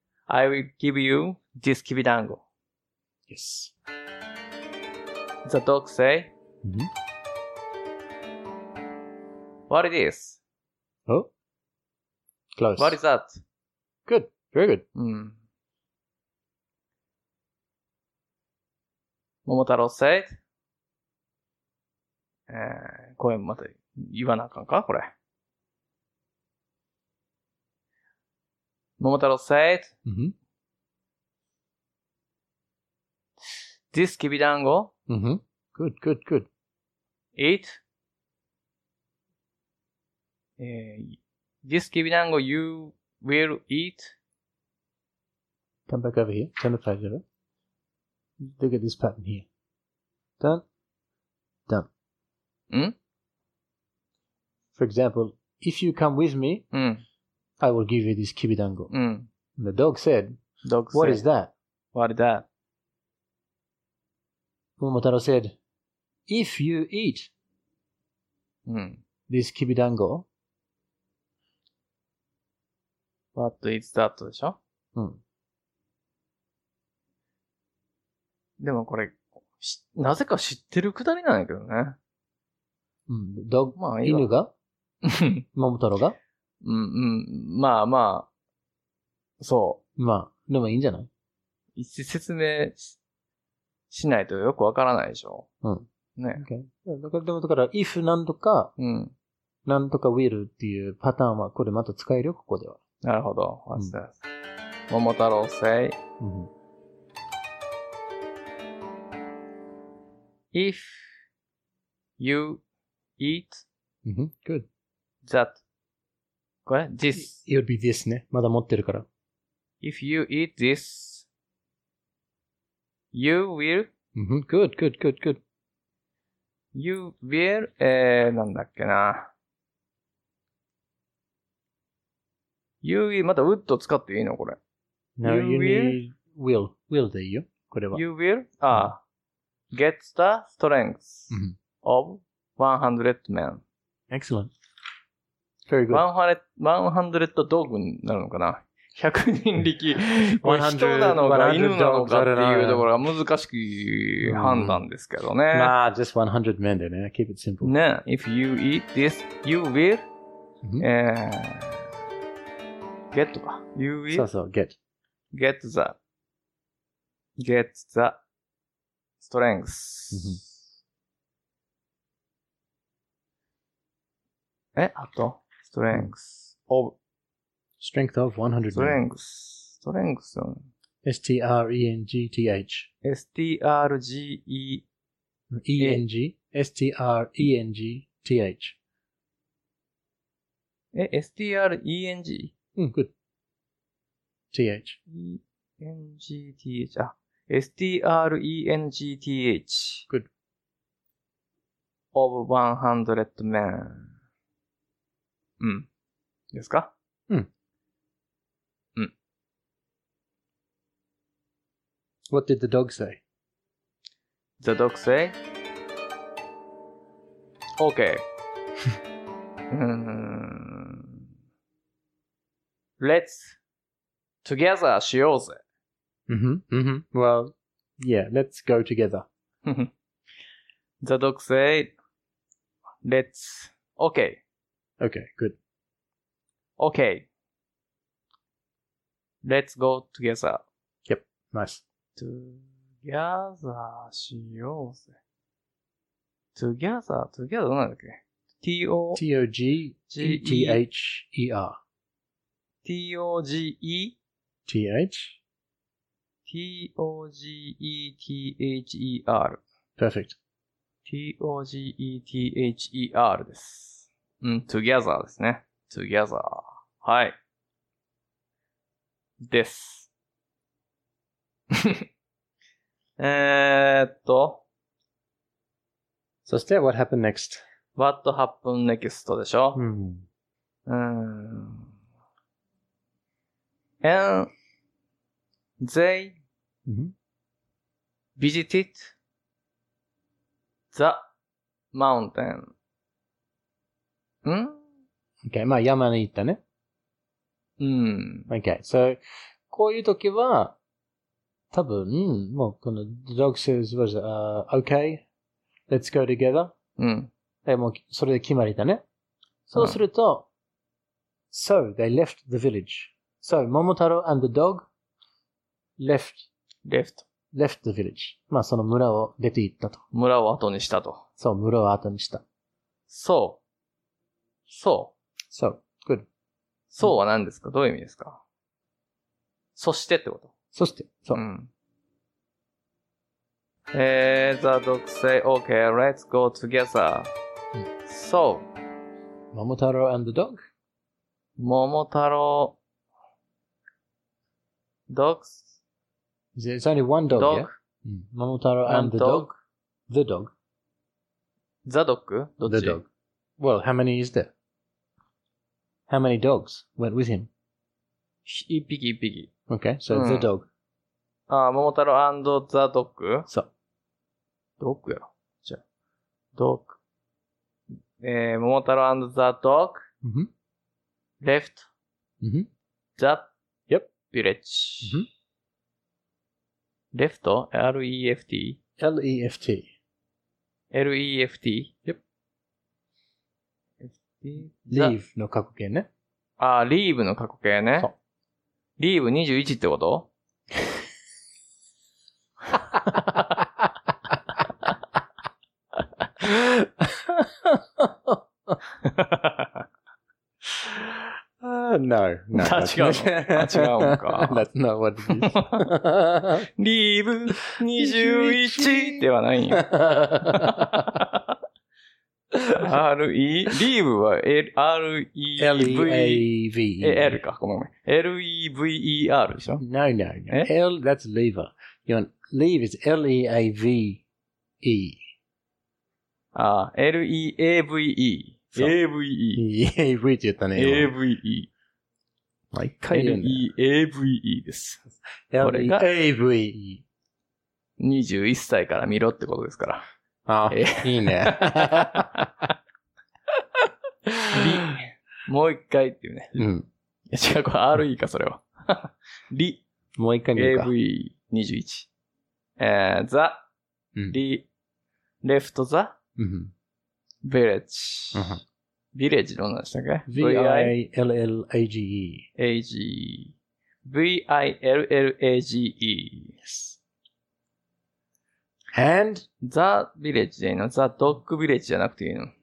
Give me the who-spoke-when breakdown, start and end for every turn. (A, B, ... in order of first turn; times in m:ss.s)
0:00.3-0:02.4 A
0:03.3-0:03.7 B
0:05.4-0:06.3 A
0:06.6-0:06.9 B
0:09.7-0:10.4 A
0:12.6-0:13.0 B
0:12.8-0:13.4 A
0:14.1-0:14.8 B
0:14.9-0:15.4 A
0:19.4-0:20.4 A
0:22.5-0:25.1 A
0:29.0-0:29.9 A
0:30.0-0:30.3 B
0:33.9-0:34.9 A
0:35.1-0:36.5 B
0:37.4-0:37.8 A
0:40.6-0:44.1 A
0:45.9-0:47.2 B
0:48.6-0:49.4 B
0:52.7-0:53.0 A
0:54.8-0:56.6 B
0:56.7-0:57.0 A
0:57.6-0:58.9 B
0:58.9-0:59.3 A
0:59.6-1:00.4 B
1:00.6-1:01.2 A
1:00.9-1:01.5 B
1:01.9-1:02.4 A
1:04.8-1:05.6 B
1:06.3-1:07.3 B
1:08.6-1:09.0 A
1:09.3-1:10.2 B
1:13.3-1:14.6 A
1:14.9-1:15.2 B
1:18.6-1:22.0 A
1:23.1-1:24.5 B
1:23.8-1:24.3 A
1:25.0-1:25.4 A
1:25.5-1:26.2 B
1:26.6-1:28.3 A
1:29.4-1:29.8 A
1:30.0-1:31.1 B
1:31.8-1:33.0 A
1:33.9-1:35.5 A
1:35.6-1:38.7 B
1:36.2-1:36.4 A
1:38.8-1:39.1 A
1:39.6-1:42.8 B
1:43.0-1:44.2 A
1:44.9-1:46.0 A
1:46.2-1:46.5 B
1:50.5-1:51.1 A
1:52.2-1:52.6 A
1:53.2-1:53.6 A
1:54.0-1:54.7 B
1:55.2-1:55.6 A
1:56.6-1:57.4 A
1:57.1-1:59.0 B
1:59.8-2:01.3 A
2:03.1-2:03.9 A
2:04.1-2:05.4 B
2:06.7-2:09.3 A
2:12.8-2:14.6 A
2:15.2-2:18.0 B
2:15.2-2:16.0 A
2:17.9-2:19.0 A
2:19.7-2:23.6 A
2:21.3-2:21.6 B
2:24.1-2:24.5 B
2:25.7-2:26.0 B
2:25.9-2:35.7 A
2:30.4-2:32.9 B
2:34.2-2:34.8 B
2:35.5-2:37.7 B
2:37.6-2:40.1 A
2:40.8-2:41.9 A
2:43.1-2:44.3 A
2:44.1-2:44.8 B
2:45.3-2:46.0 A
2:47.4-2:48.2 A
2:49.2-2:50.5 A
2:50.1-2:50.4 B
2:54.7-2:57.0 A
2:57.8-2:59.0 B
2:58.7-3:00.7 A
3:01.0-3:02.9 B
3:03.0-3:04.8 A
3:05.5-3:08.8 B
3:10.9-3:12.5 A
3:12.8-3:13.1 B
3:14.5-3:15.0 B
3:15.1-3:20.1 A
3:22.1-3:24.1 A
3:25.6-3:25.9 A
3:26.5-3:26.9 A
3:32.3-3:33.2 B
3:34.6-3:35.4 A
3:37.8-3:38.2 A
3:39.7-3:41.1 A
3:43.0-3:43.6 A
3:44.4-3:45.6 A
3:46.3-3:49.2 B
3:49.6-3:49.9 A
3:51.0-3:51.9 A
3:53.0-3:54.4 A
3:55.0-3:55.6 B
3:56.8-3:57.3 A
3:59.4-4:00.6 A
4:01.1-4:01.8 B
4:02.2-4:05.1 A
4:06.5-4:09.2 A
4:09.1-4:11.8 B
4:10.1-4:10.8 A
4:12.8-4:14.2 A
4:14.7-4:15.4 B
4:16.4-4:19.6 A
4:20.0-4:20.4 B
4:21.0-4:27.4 A
4:29.4-4:30.1 A
4:31.7-4:32.0 A
4:33.2-4:34.6 A
4:36.4-4:37.6 B
4:38.0-4:39.8 A
4:39.7-4:40.2 B
4:40.9-4:41.9 A
4:44.0-4:44.5 A
4:45.8-4:46.4 A
4:46.8-4:47.1 B
4:48.4-4:49.1 A
4:50.9-4:51.3 A
4:51.9-4:52.7 A
4:54.4-4:54.8 A
4:55.4-4:56.6 B
4:57.8-4:58.5 A
4:58.5-5:00.8 B
5:01.7-5:05.2 B
5:05.9-5:06.7 B
5:07.0-5:07.3 A
5:07.6-5:09.0 B
5:09.7-5:10.5 B
5:11.5-5:14.9 B
5:16.0-5:16.5 B
5:16.8-5:17.2 A
5:17.5-5:20.0 B
5:20.1-5:21.2 A
5:21.4-5:22.4 B
5:23.1-5:23.6 A
5:24.7-5:25.1 A
5:25.5-5:26.2 B
5:26.9-5:28.4 A
5:29.8-5:30.5 A
5:30.7-5:31.4 B
5:31.3-5:31.7 A
5:33.9-5:37.3 A
5:38.0-5:38.7 A
5:39.5-5:40.6 B
5:41.6-5:42.8 A
5:45.1-5:45.8 A
5:46.5-5:49.5 B
5:47.3-5:47.7 A
5:48.8-5:49.5 A
5:50.1-5:50.5 B
5:51.8-5:53.0 A
5:52.6-5:53.1 B
5:53.6-5:54.5 B
5:56.1-5:57.5 B
5:58.4-5:59.5 A
5:59.7-6:00.7 B
6:00.1-6:00.5 A
6:01.5-6:03.5 A
6:04.8-6:05.8 A
6:06.5-6:07.0 A
6:08.2-6:10.1 A
6:10.2-6:10.5 B
6:11.4-6:11.9 A
6:12.4-6:12.7 B
6:13.2-6:13.5 A
6:14.2-6:15.2 A
6:17.1-6:18.8 A
6:19.0-6:19.9 B
6:20.9-6:21.9 A
6:24.0-6:25.2 A
6:24.9-6:26.1 B
6:26.6-6:28.1 A
6:29.0-6:30.3 A
6:32.9-6:33.6 B
6:36.4-6:38.8 B
6:39.0-6:39.8 A
6:41.1-6:46.7 B
6:42.5-6:44.6 A
6:45.4-6:45.8 A
6:46.8-6:49.9 A
6:48.0-6:51.1 B
6:50.4-6:51.5 A
6:52.7-6:56.4 A
6:55.6-6:57.4 B
6:57.0-6:59.8 A
6:59.8-7:04.2 B
7:04.8-7:05.2 B
7:06.5-7:09.6 A
7:09.6-7:11.1 B
7:10.8-7:11.7 A
7:12.7-7:13.6 B
7:13.1-7:15.0 A
7:15.5-7:17.0 B
7:15.6-7:16.0 A
7:18.0-7:20.0 A
7:20.5-7:22.3 B
7:20.7-7:22.7 A
7:24.3-7:24.6 B
7:24.5-7:26.6 A
7:26.6-7:26.9 B
7:27.3-7:29.8 A
7:30.2-7:30.9 B
7:30.5-7:32.1 A
7:32.8-7:33.6 A
7:34.3-7:34.6 A
7:35.4-7:36.2 A
7:36.4-7:36.7 B
7:37.4-7:38.6 A
7:38.3-7:38.6 B
7:39.1-7:40.9 A
7:40.3-7:42.5 B
7:42.6-7:43.5 A
7:44.0-7:46.6 A
7:46.6-7:47.0 B
7:48.9-7:49.4 B
7:49.6-7:52.5 A